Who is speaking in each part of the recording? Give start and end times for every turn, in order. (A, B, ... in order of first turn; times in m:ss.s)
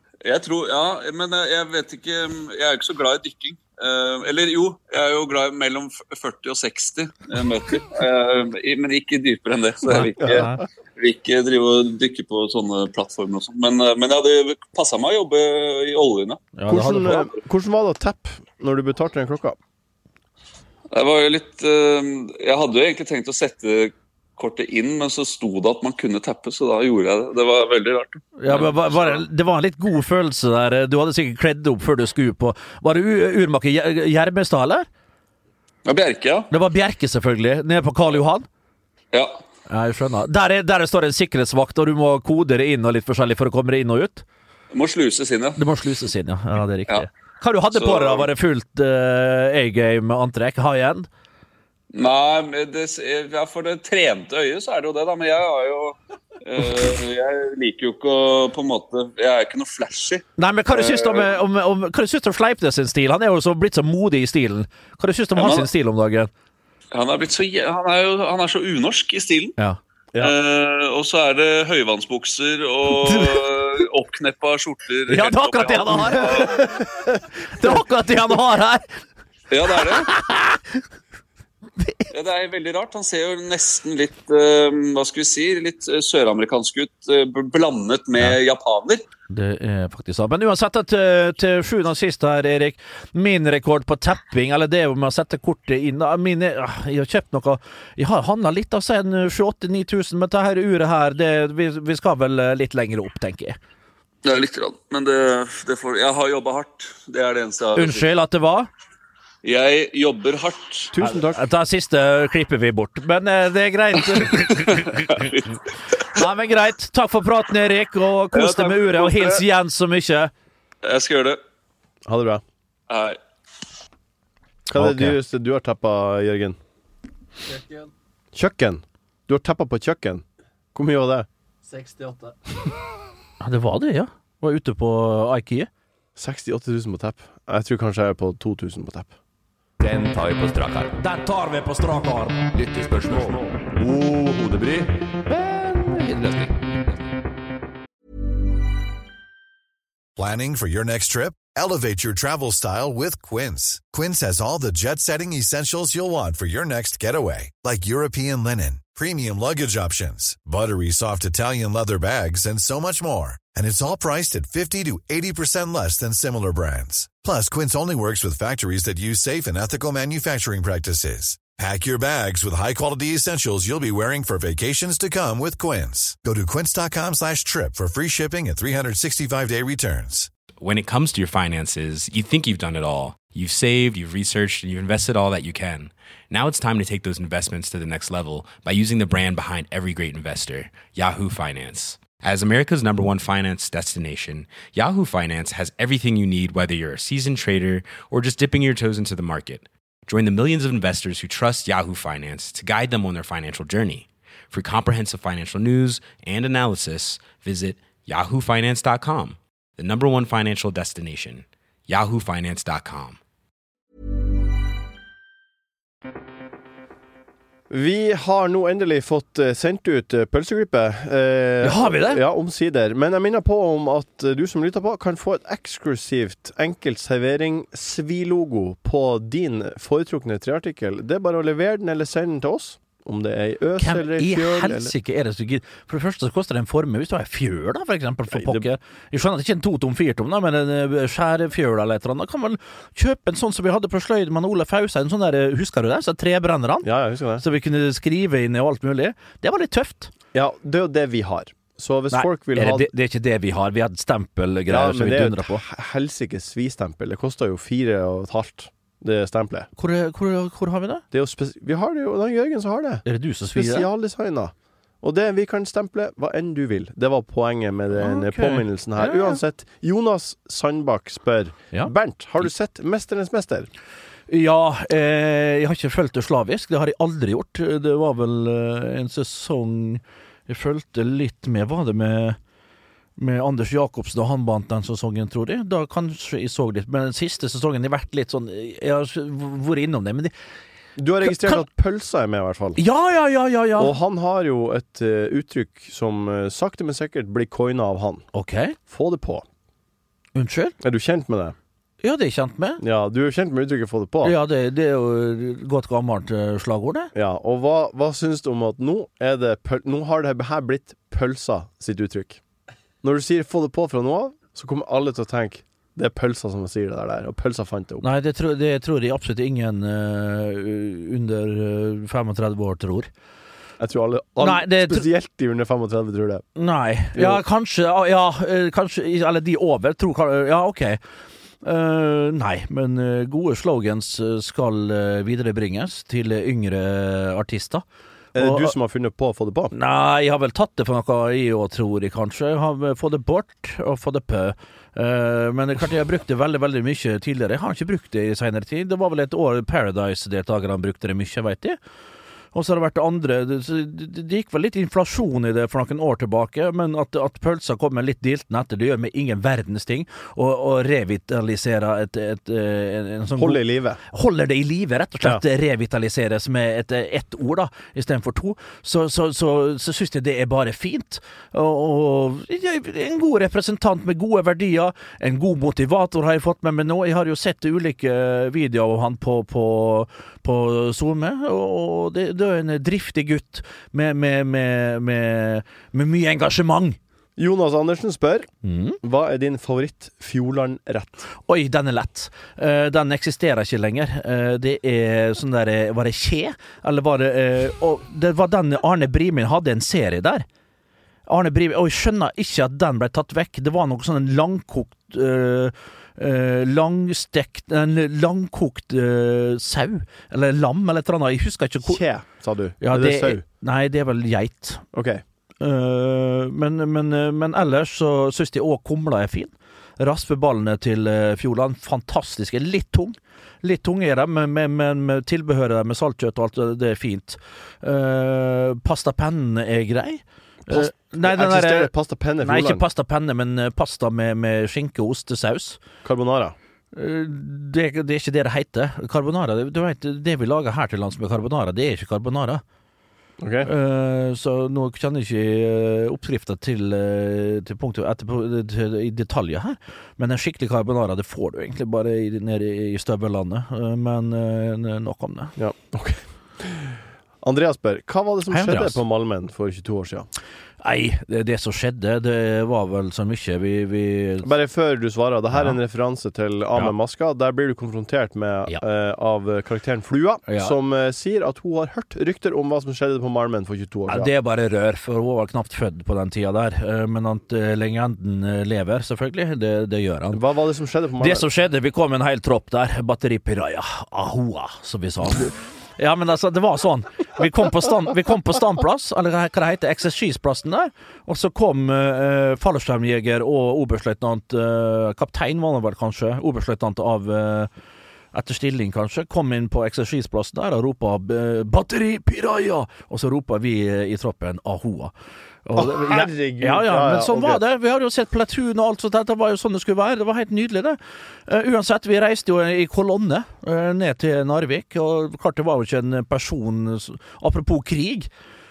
0:00.2-0:16.5 A
0:09.8-0:10.6 B
0:10.2-0:10.5 C
0:16.6-0:17.3 B
0:16.7-0:19.6 C
0:20.9-0:29.2 A
0:28.4-0:34.9 B
0:35.8-0:36.5 A
0:36.5-0:38.4 B
0:39.1-0:39.4 A
0:39.7-0:44.2 B
0:44.7-0:45.6 A
0:45.6-0:51.1 B
0:47.7-0:48.3 A
0:51.9-1:01.3 A
1:00.4-1:06.3 B
1:05.4-1:05.7 A
1:06.9-1:09.6 A
1:10.2-1:16.8 A
1:13.0-1:13.4 B
1:15.1-1:16.5 B
1:16.7-1:17.1 C
1:17.5-1:19.0 B
1:19.5-1:20.1 A
1:19.8-1:20.8 B
1:21.8-1:22.1 B
1:22.1-1:29.0 A
1:29.3-1:43.6 B
1:44.2-1:48.1 A
1:47.8-1:48.7 B
1:49.4-1:50.9 A
1:50.9-1:51.4 C
1:51.0-1:54.8 B
1:54.1-1:56.0 A
1:56.1-2:00.3 B
1:58.3-1:59.4 A
2:00.8-2:01.4 A
2:02.0-2:02.4 C
2:02.9-2:03.2 A
2:04.7-2:06.6 C
2:04.7-2:05.2 B
2:08.3-2:11.3 C
2:13.4-2:15.7 B
2:16.2-2:19.1 C
2:19.8-2:21.0 D
2:21.0-2:22.4 B
2:22.5-2:27.0 D
2:30.2-3:00.3 E
3:00.6-3:33.2 F
3:37.7-3:54.9 C
3:41.6-3:42.2 B
3:53.8-4:10.1 B
3:58.3-3:58.7 C
4:06.8-4:07.4 C
4:10.3-4:12.9 C
4:12.1-4:15.6 B
4:14.7-4:19.7 C
4:19.8-4:21.0 B
4:21.1-4:33.7 C
4:23.0-4:23.9 B
4:27.9-4:29.4 B
4:34.3-4:42.4 B
4:43.2-4:50.3 B
4:51.0-4:52.8 C
4:51.2-4:51.6 B
4:52.8-4:54.0 B
4:53.8-4:58.3 C
4:58.3-4:58.8 B
4:58.9-4:59.4 C
5:00.3-5:00.8 B
5:00.8-5:01.5 C
5:02.0-5:02.8 B
5:02.8-5:04.4 C
5:04.2-5:07.1 B
5:07.1-5:12.4 C
5:13.0-5:18.1 C
5:18.0-5:23.1 B
5:23.8-5:26.4 C
5:24.4-5:25.0 B
5:26.6-5:31.0 B
5:27.1-5:27.4 C
5:31.6-5:37.8 B
5:38.3-5:38.7 B
5:38.3-5:39.7 C
5:39.7-5:51.8 B
5:52.5-6:27.0 B
6:03.4-6:04.0 C
6:27.4-6:28.5 C
6:28.6-6:29.0 B
6:29.0-6:31.3 C
6:31.4-6:40.4 B
6:41.3-6:52.0 B
6:51.8-6:53.4 C
6:52.8-6:54.8 B
6:54.9-6:55.2 C
6:55.6-7:15.8 B
7:10.7-7:12.8 C
7:16.0-7:16.5 C
7:16.9-7:22.6 B
7:23.4-7:23.7 C
7:23.6-7:35.5 B
7:35.6-7:40.3 C
7:38.5-7:39.0 B
7:40.8-7:44.5 B
7:44.4-7:54.3 C
7:50.5-7:50.7 B
7:54.1-8:00.4 B
8:00.3-8:01.5 C
8:01.2-8:17.7 B
8:18.3-8:25.1 B
8:25.6-8:38.3 B
8:25.8-8:27.6 C